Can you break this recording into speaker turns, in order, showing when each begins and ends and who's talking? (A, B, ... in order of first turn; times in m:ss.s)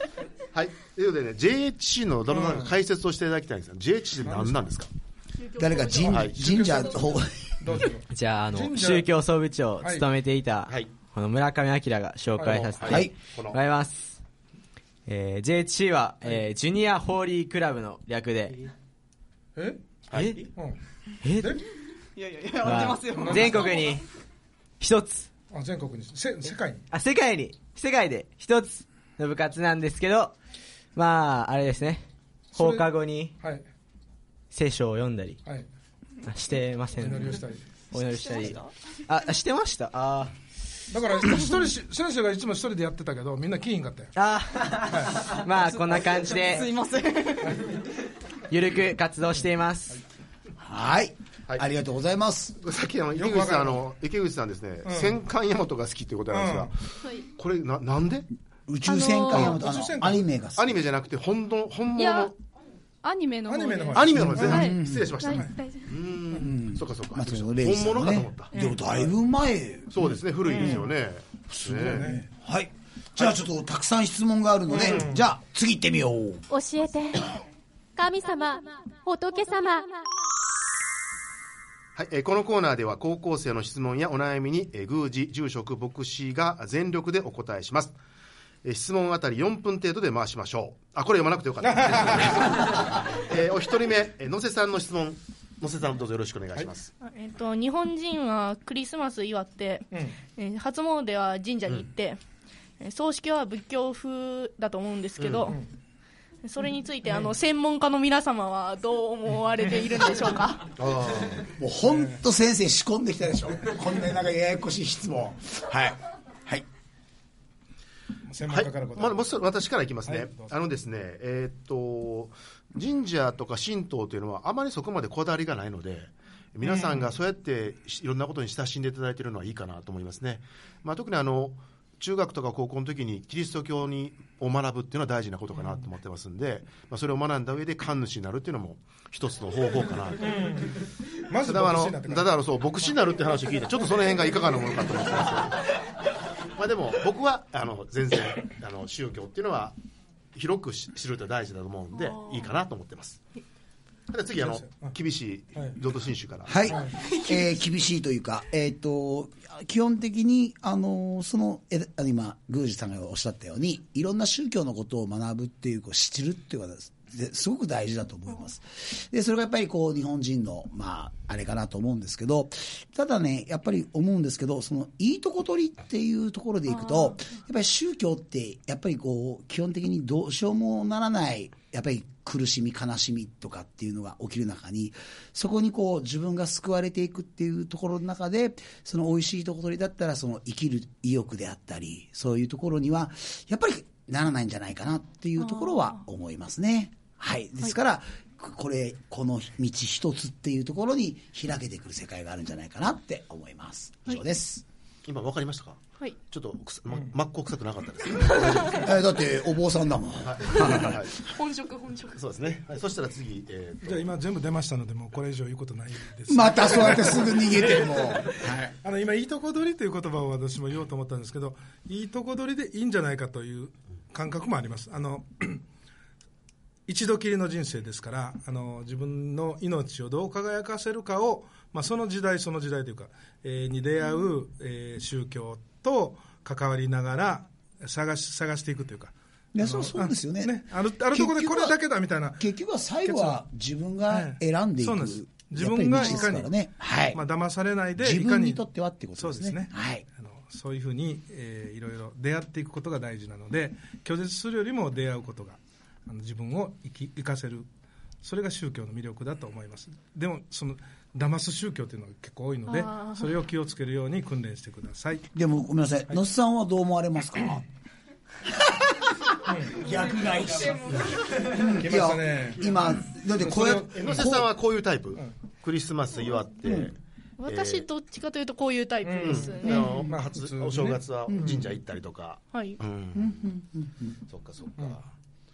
0:00.5-0:04.9 A
0:02.3-0:02.7 B
0:04.2-0:04.6 B
0:05.4-0:07.1 C
0:05.6-0:07.8 D
0:06.1-0:06.4 A
0:06.3-0:09.1 B
0:08.1-0:14.2 E
0:09.8-0:10.0 B
0:12.3-0:12.7 B
0:12.7-0:13.6 A
0:12.8-0:13.1 D
0:15.0-0:18.6 E
0:19.6-0:19.8 B
0:20.1-0:20.4 A
0:20.1-0:20.5 E
0:21.2-0:21.6 E
0:21.4-0:21.6 B
0:22.2-0:23.5 F
0:22.5-0:24.0 E
0:23.1-0:23.8 B
0:24.8-0:25.3 E
0:25.5-0:26.8 B
0:26.9-0:30.4 E
0:30.9-0:32.0 E
0:32.5-0:33.3 E
0:32.5-0:32.9 B
0:33.4-0:33.6 B
0:34.5-0:35.4 E
0:36.2-0:40.3 E
0:37.0-0:37.6 B
0:38.3-0:38.6 F
0:40.9-0:44.1 B
0:44.1-0:46.7 E
0:44.9-0:45.3 B
0:45.7-0:47.8 F
0:47.4-0:47.7 B
0:48.5-0:50.0 E
0:50.6-0:52.6 D
0:52.6-0:58.3 A
0:53.1-0:53.8 B
0:54.8-0:55.1 B
0:56.3-0:56.7 B
0:58.7-1:00.8 D
0:58.8-0:59.5 G
0:59.3-1:00.3 B
1:00.6-1:02.3 A
1:02.0-1:02.3 G
1:03.0-1:05.9 G
1:03.5-1:04.7 B
1:03.9-1:08.5 A
1:04.1-1:05.2 D
1:06.4-1:10.0 D
1:08.5-1:08.8 G
1:09.9-1:12.1 A
1:10.4-1:10.9 B
1:11.5-1:16.4 D
1:11.8-1:12.2 B
1:14.7-1:15.3 B
1:14.7-1:15.1 A
1:16.5-1:17.3 H
1:18.0-1:20.0 H
1:22.0-1:28.0 A
1:28.6-1:36.9 A
1:31.6-1:32.8 B
1:37.0-1:42.2 C
1:39.9-1:40.2 B
1:42.8-1:45.6 C
1:45.2-1:45.5 A
1:46.4-1:50.7 C
1:47.0-1:47.3 B
1:50.8-1:51.5 A
1:51.5-1:56.6 D
1:51.9-1:52.2 B
1:58.2-1:59.3 B
1:58.5-2:20.5 A
2:00.0-2:00.5 B
2:06.6-2:07.1 B
2:20.2-2:22.3 B
2:21.4-2:25.7 A
2:26.5-2:29.8 A
2:30.3-2:33.2 A
2:34.1-2:36.8 A
2:34.4-2:34.9 B
2:36.4-3:24.6 D
2:36.7-2:37.0 B
2:56.7-2:57.3 C
3:15.4-3:16.0 C
3:25.0-3:28.9 A
3:28.6-3:31.0 D
3:30.2-3:31.3 A
3:31.2-3:32.2 C
3:32.1-3:34.0 A
3:33.8-3:45.6 B
3:36.3-3:38.7 D
3:46.9-4:02.4 B
3:59.5-4:01.8 D
4:02.4-4:07.2 D
4:03.0-4:03.4 B
4:04.1-4:06.5 B
4:07.1-4:08.6 B
4:08.0-4:10.0 D
4:09.2-4:17.7 B
4:18.2-4:25.3 B
4:22.6-4:23.3 C
4:25.3-4:27.6 D
4:28.5-4:34.2 D
4:29.4-4:29.9 B
4:31.7-4:32.8 B
4:33.3-4:34.4 B
4:33.4-4:36.9 A
4:36.6-4:36.9 D
4:37.4-4:40.0 C
4:37.4-4:37.9 A
4:39.0-4:41.7 B
4:39.2-4:43.5 A
4:39.7-4:40.1 D
4:41.3-4:41.6 D
4:42.5-4:42.8 C
4:43.1-4:44.2 D
4:44.3-4:45.0 A